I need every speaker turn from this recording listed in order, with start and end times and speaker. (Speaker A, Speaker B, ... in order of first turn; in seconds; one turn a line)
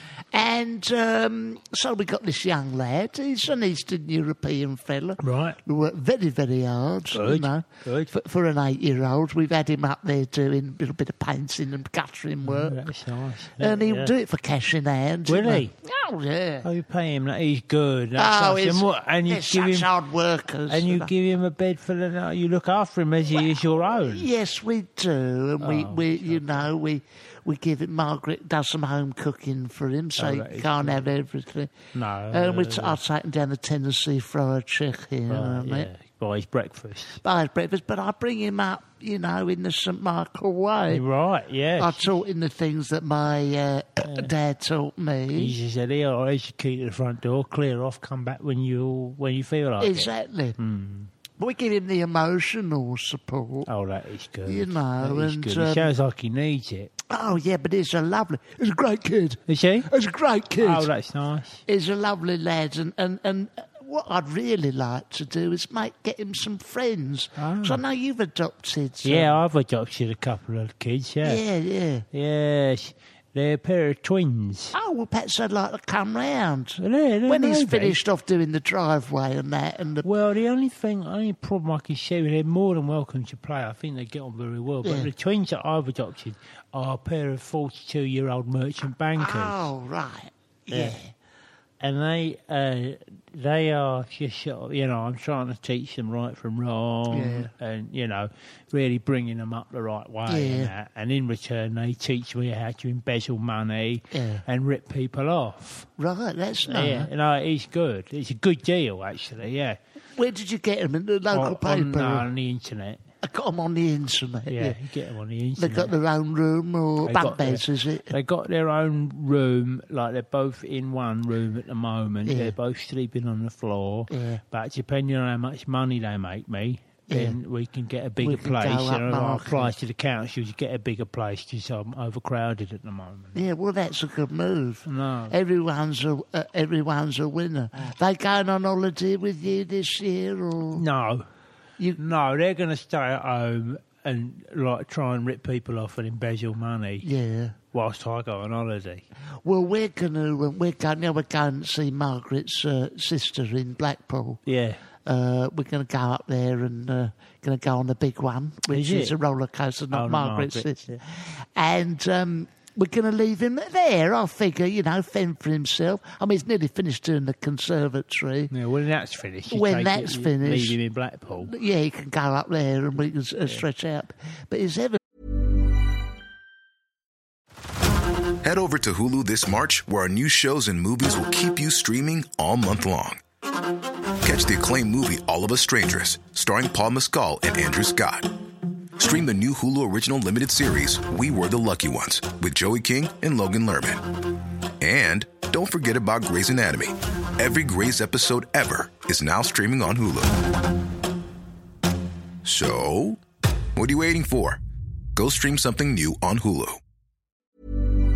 Speaker A: 0.3-12.9
Speaker B: 5.2-5.6
Speaker B: 7.1-8.1
Speaker B: 12.4-14.1
Speaker A: 13.6-16.7
Speaker B: 15.3-15.7
Speaker B: 16.6-19.9
Speaker A: 18.1-21.1
Speaker B: 20.7-24.3
Speaker A: 23.3-31.7
Speaker B: 25.6-26.7
Speaker B: 30.2-31.1
Speaker B: 31.9-33.0
Speaker A: 32.3-35.9
Speaker B: 35.3-37.2
Speaker A: 37.2-41.0
Speaker B: 40.9-42.1
Speaker A: 41.8-45.5
Speaker B: 44.0-44.3
Speaker B: 45.3-51.1
Speaker A: 49.8-50.6
Speaker A: 51.4-53.7
Speaker B: 53.6-56.9
Speaker A: 54.4-55.9
Speaker A: 57.0-60.9
Speaker B: 59.5-59.9
Speaker B: 60.6-61.6
Speaker A: 61.7-69.3
Speaker B: 67.4-67.8
Speaker B: 69.0-71.4
Speaker A: 71.2-72.0
Speaker B: 72.1-74.7
Speaker A: 74.7-80.1
Speaker B: 76.8-78.0
Speaker B: 80.0-89.7
Speaker A: 84.8-85.1
Speaker A: 89.2-91.1
Speaker B: 90.7-91.0
Speaker B: 91.8-105.9
Speaker A: 97.1-97.5
Speaker A: 100.3-100.7
Speaker A: 104.1-104.4
Speaker A: 106.0-107.1
Speaker B: 106.6-109.8
Speaker A: 110.1-112.3
Speaker B: 111.3-113.0
Speaker A: 113.2-114.8
Speaker B: 114.5-115.9
Speaker A: 115.6-118.1
Speaker B: 117.0-133.4
Speaker A: 122.2-122.5
Speaker A: 124.1-124.4
Speaker A: 127.1-127.4
Speaker A: 128.2-129.7
Speaker A: 133.3-140.8
Speaker B: 134.8-135.3
Speaker B: 140.7-141.3
Speaker B: 141.9-147.1
Speaker A: 147.0-147.6
Speaker B: 147.7-149.0
Speaker A: 149.4-154.4
Speaker B: 154.4-154.8
Speaker A: 155.0-168.5
Speaker B: 158.7-159.2
Speaker B: 159.9-161.0
Speaker B: 168.5-171.5
Speaker A: 169.5-170.8
Speaker A: 171.4-175.0
Speaker C: 178.4-183.2
Speaker C: 184.2-188.3
Speaker C: 189.0-194.1
Speaker C: 194.8-200.4
Speaker C: 202.4-203.2
Speaker C: 203.8-204.6
Speaker C: 205.1-206.8